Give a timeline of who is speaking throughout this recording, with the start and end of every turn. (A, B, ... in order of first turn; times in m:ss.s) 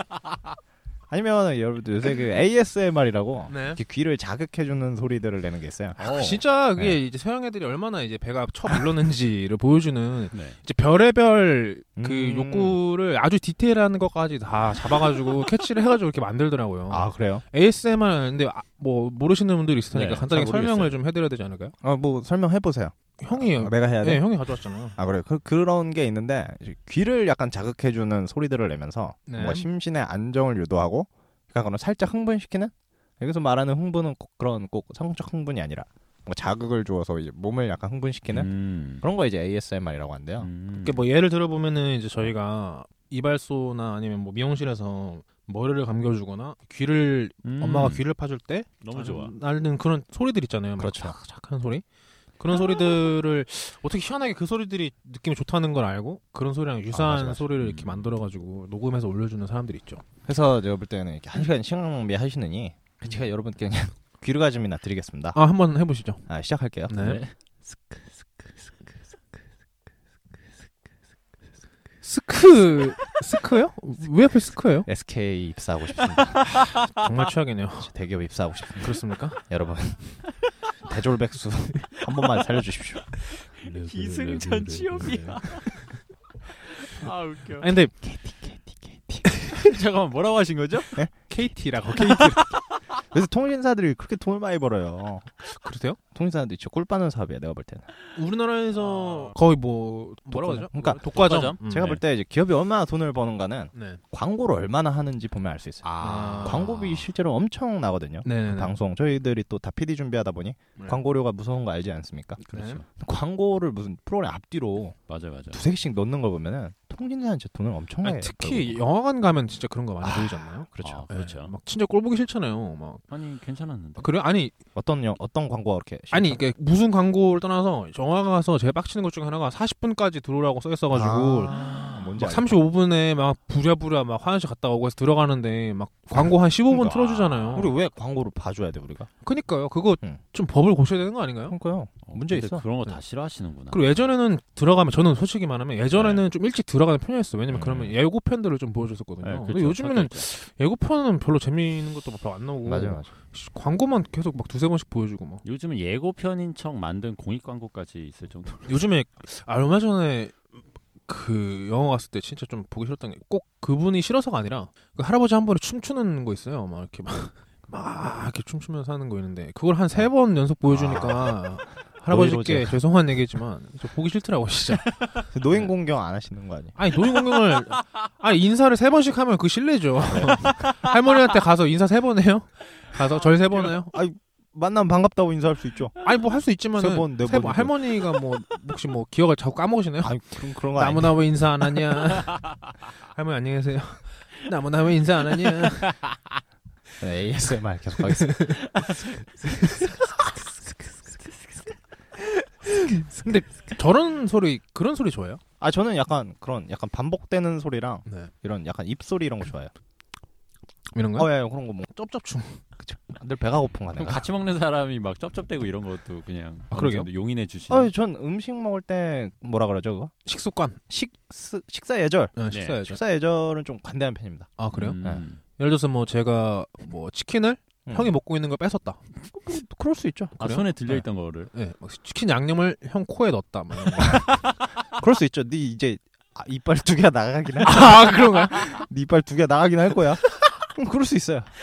0:01.1-0:06.0 A
0:03.5-0:03.8 B
0:06.0-0:06.4 C
0:06.1-0:21.8 B
0:10.3-0:10.6 C
0:12.0-0:12.8 A
0:16.9-0:17.4 A
0:19.9-0:20.3 C
0:20.3-0:21.0 A
0:21.8-0:24.3 A
0:23.2-0:25.0 B
0:25.0-0:38.5 A
0:29.3-0:29.6 B
0:38.3-0:39.0 C
0:39.0-0:40.5 A
0:40.4-0:41.0 C
0:40.7-0:51.8 B
0:47.4-0:48.0 C
0:48.8-0:49.4 C
0:50.8-0:51.2 A
0:52.4-1:00.0 B
0:56.9-0:57.4 A
0:57.6-0:58.1 C
1:00.3-1:05.4 A
1:05.3-1:06.2 B
1:06.3-1:07.2 A
1:06.9-1:07.2 B
1:07.0-1:07.3 C
1:12.0-1:14.9 B
1:14.8-1:16.4 A
1:16.0-1:17.1 C
1:16.7-1:17.9 B
1:17.8-1:20.2 A
1:18.8-1:19.4 B
1:20.8-1:23.0 A
1:22.0-1:25.7 C
1:23.6-1:26.0 B
1:26.8-1:27.7 C
1:27.6-1:28.4 B
1:28.6-1:29.2 A
1:29.2-1:29.8 B
1:29.5-1:31.0 C
1:31.3-1:32.5 B
1:32.0-1:33.0 C
1:33.1-1:35.3 A
1:35.4-1:36.0 B
1:36.1-1:37.9 A
1:38.2-1:42.0 B
1:38.8-1:39.4 C
1:40.3-1:55.0 A
1:41.0-1:42.0 C
1:43.7-1:44.0 B
1:45.8-1:47.1 C
1:46.0-1:46.7 B
1:48.2-1:48.8 B
1:50.8-1:51.0 B
1:52.5-1:52.8 C
1:52.5-1:52.8 B
1:55.1-1:55.6 C
1:55.5-1:58.8 A
1:58.0-2:03.0 B
2:00.0-2:01.1 A
2:00.8-2:01.5 C
2:03.1-2:04.1 C
2:04.0-2:04.6 B
2:04.8-2:06.4 A
2:06.1-2:11.6 B
2:10.9-2:12.6 A
2:12.2-2:17.7 B
2:16.7-2:19.1 A
2:17.2-2:17.7 C
2:19.2-2:21.6 B
2:21.5-2:22.6 A
2:22.0-2:24.0 C
2:23.7-2:35.4 B
2:26.0-2:26.2 C
2:27.5-2:28.0 A
2:29.2-2:30.3 C
2:32.6-2:33.1 A
2:35.4-2:38.9 C
2:38.7-2:40.5 B
2:41.1-2:55.0 B
2:50.7-2:51.4 A
2:52.1-2:52.8 A
2:55.3-2:56.8 A
2:56.8-3:03.9 B
3:00.1-3:00.5 A
3:00.6-3:00.9 C
3:03.6-3:05.9 A
3:06.0-3:12.5 B
3:06.8-3:07.8 A
3:10.0-3:11.2 A
3:13.1-3:16.0 B
3:15.6-3:16.2 C
3:17.0-3:18.8 A
3:18.1-3:18.6 B
3:18.8-3:19.3 C
3:19.6-3:19.9 B
3:22.4-3:25.4 B
3:25.6-3:29.7 A
3:28.1-3:28.3 B
3:30.9-3:31.3 B
3:31.2-3:31.9 A
3:31.9-3:32.6 B
3:32.8-3:34.2 A
3:34.0-3:37.9 C
3:36.7-3:37.1 B
3:37.7-3:40.1 A
3:40.2-3:40.8 B
3:40.9-3:45.2 A
3:42.4-3:43.0 B
3:42.5-3:42.8 C
3:44.6-3:45.0 B
3:44.7-3:45.4 C
3:45.5-3:49.0 B
3:47.9-3:48.2 A
3:49.3-3:50.4 A
3:50.4-3:51.5 C
3:50.4-3:54.3 B
3:54.1-3:54.6 C
3:55.0-4:01.5 A
3:57.6-3:58.7 B